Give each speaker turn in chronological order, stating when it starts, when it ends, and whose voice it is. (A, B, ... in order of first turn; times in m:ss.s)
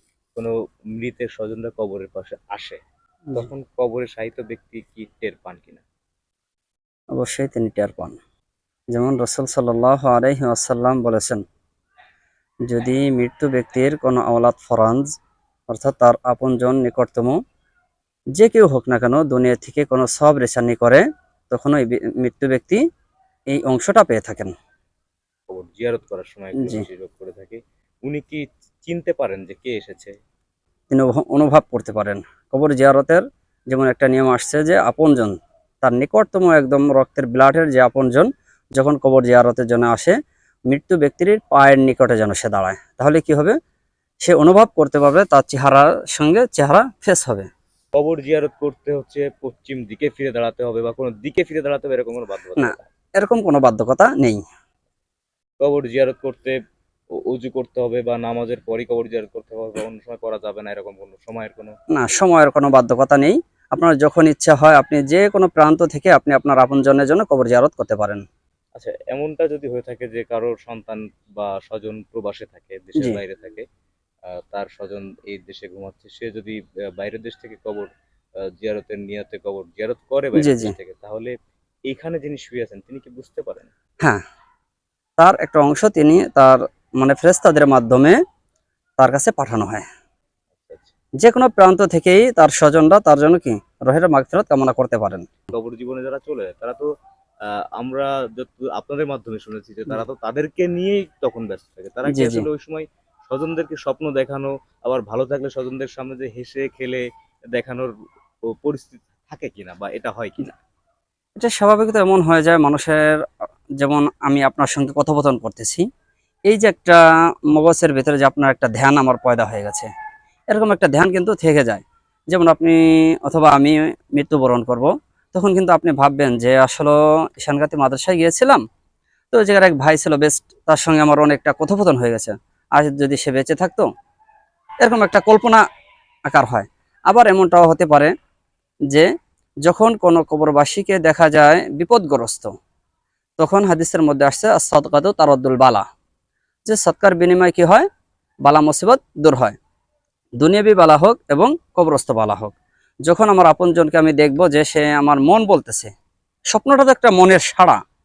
0:00.3-0:02.8 A
0:03.3-0:05.8 A
0:07.1-0:08.2 B
0:08.9-0:11.4 B
0:12.6-0:15.0 B
0:15.7-0:17.4 B
0:18.4-0:22.8 B
0:23.5-0:24.5 B
0:25.5-0:30.2 A
0:26.6-0:26.8 B
0:30.9-0:40.2 B
0:40.7-0:43.6 B
0:44.2-0:47.5 B
0:47.9-0:52.9 A
0:52.6-0:54.4 B
0:55.6-0:56.6 A
0:57.2-1:01.7 A
1:01.9-1:08.2 B
1:08.8-1:13.6 A
1:14.3-1:17.9 A
1:18.6-1:21.3 A
1:20.4-1:20.7 B
1:21.9-1:23.7 A
1:25.2-1:28.2 B
1:29.0-1:29.8 B
1:30.6-1:31.0 A
1:31.2-1:35.4 B
1:35.5-1:36.9 A
1:37.5-1:47.9 A
1:42.1-1:42.4 B
1:48.6-1:50.6 A
1:51.4-1:53.0 B
1:53.8-1:55.9 B
1:56.5-1:59.9 B
2:00.5-2:08.6 B
2:09.3-2:13.9 B
2:14.8-2:15.6 B
2:16.3-2:18.1 B
2:19.6-2:22.5 B
2:23.4-2:25.8 B
2:26.7-2:27.8 B
2:28.4-2:29.6 B
2:30.4-2:32.5 B
2:33.1-2:35.9 B
2:36.5-2:37.8 B